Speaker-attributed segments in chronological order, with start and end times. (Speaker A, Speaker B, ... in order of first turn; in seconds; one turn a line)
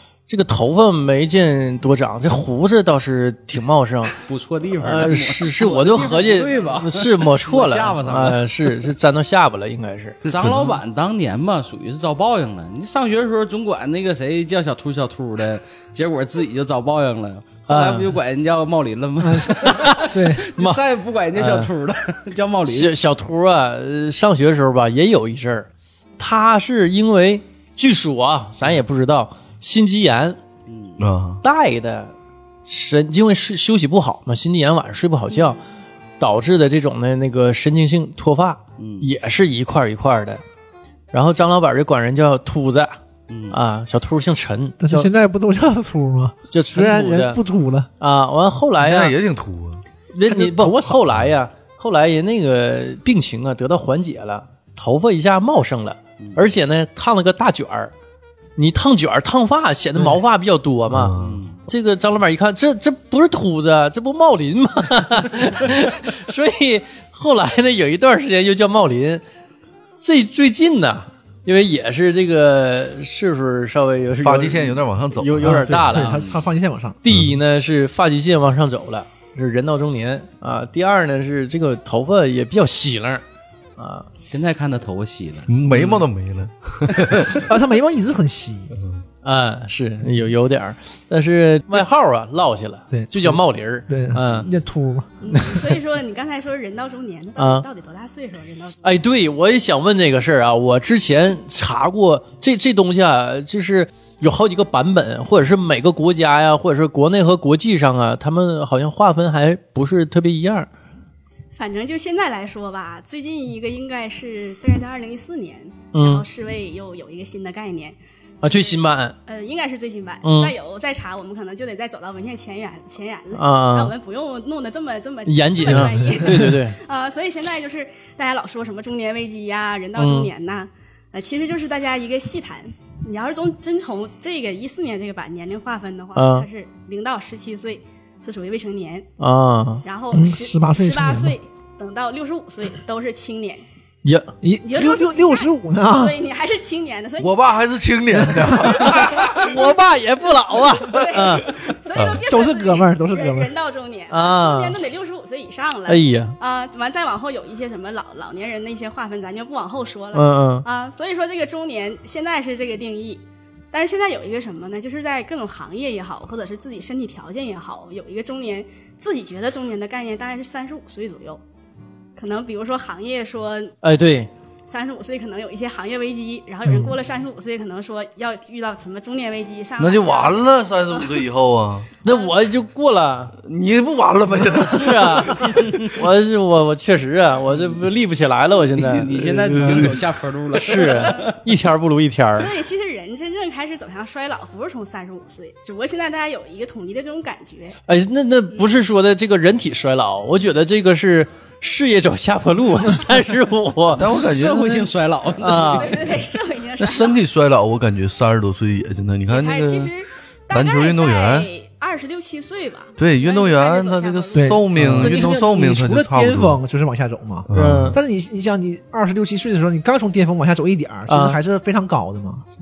Speaker A: 0.3-4.2
Speaker B: 4.2-8.4
Speaker A: 4.8-10.2
Speaker C: 10.3-10.8
Speaker B: 10.3-22.9
Speaker A: 17.7-18.2
Speaker D: 19.2-20.4
Speaker A: 19.5-20.8
Speaker A: 21.4-21.7
Speaker A: 22.7-30.4
Speaker B: 30.7-31.0
Speaker C: 31.0-31.4
Speaker A: 31.4-32.1
Speaker A: 32.7-35.6
Speaker A: 36.2-40.4
Speaker B: 38.8-39.1
Speaker A: 41.1-43.0
Speaker B: 43.3-43.6
Speaker A: 43.5-45.1
Speaker D: 44.8-47.9
Speaker A: 46.5-47.4
Speaker A: 48.0-49.2
Speaker C: 48.8-49.8
Speaker A: 50.1-57.9
Speaker D: 50.2-51.0
Speaker B: 56.2-56.5
Speaker A: 58.6-61.1
Speaker C: 60.9-61.5
Speaker B: 61.2-61.6
Speaker A: 61.7-69.2
Speaker A: 70.0-76.4
Speaker C: 74.2-76.0
Speaker D: 75.4-77.0
Speaker B: 76.0-76.4
Speaker A: 77.0-83.2
Speaker A: 83.8-84.1
Speaker B: 84.3-86.0
Speaker C: 85.5-87.5
Speaker B: 86.9-87.2
Speaker D: 87.3-88.7
Speaker A: 89.2-94.5
Speaker D: 92.9-95.4
Speaker B: 94.3-94.6
Speaker E: 95.2-98.9
Speaker A: 97.4-97.7
Speaker A: 98.8-110.7
Speaker E: 111.5-139.1
Speaker A: 115.9-116.2
Speaker A: 118.4-119.2
Speaker A: 120.2-120.5
Speaker A: 123.3-123.9
Speaker A: 125.3-126.8
Speaker D: 125.7-126.6
Speaker A: 130.0-130.3
Speaker A: 136.2-136.5
Speaker A: 139.2-139.8
Speaker E: 139.8-143.6
Speaker D: 140.1-141.4
Speaker A: 144.0-144.3
Speaker D: 144.4-146.2
Speaker E: 144.6-147.5
Speaker C: 147.2-149.5
Speaker D: 148.1-149.1
Speaker E: 148.7-149.8
Speaker A: 149.2-151.6
Speaker E: 150.4-171.4
Speaker C: 152.0-152.2
Speaker D: 152.3-153.5
Speaker A: 154.1-154.8
Speaker A: 155.9-156.4
Speaker A: 160.1-160.7
Speaker E: 172.2-173.8
Speaker A: 173.8-174.3
Speaker E: 174.7-180.5
Speaker C: 179.8-181.9
Speaker A: 182.0-183.3
Speaker E: 182.1-182.3
Speaker C: 183.4-185.5
Speaker A: 184.7-189.9
Speaker B: 187.5-187.9
Speaker B: 188.6-191.4
Speaker A: 190.5-192.5
Speaker E: 190.7-191.3
Speaker E: 192.3-197.8
Speaker A: 197.9-204.1
Speaker C: 204.0-204.9
Speaker B: 204.0-206.1
Speaker A: 205.4-206.0
Speaker E: 205.6-207.2
Speaker C: 206.8-209.9
Speaker E: 209.3-215.4
Speaker C: 210.5-211.5
Speaker C: 213.0-216.6
Speaker D: 214.4-222.5
Speaker A: 214.8-215.2
Speaker C: 217.5-218.0
Speaker A: 217.5-218.0
Speaker A: 221.1-221.4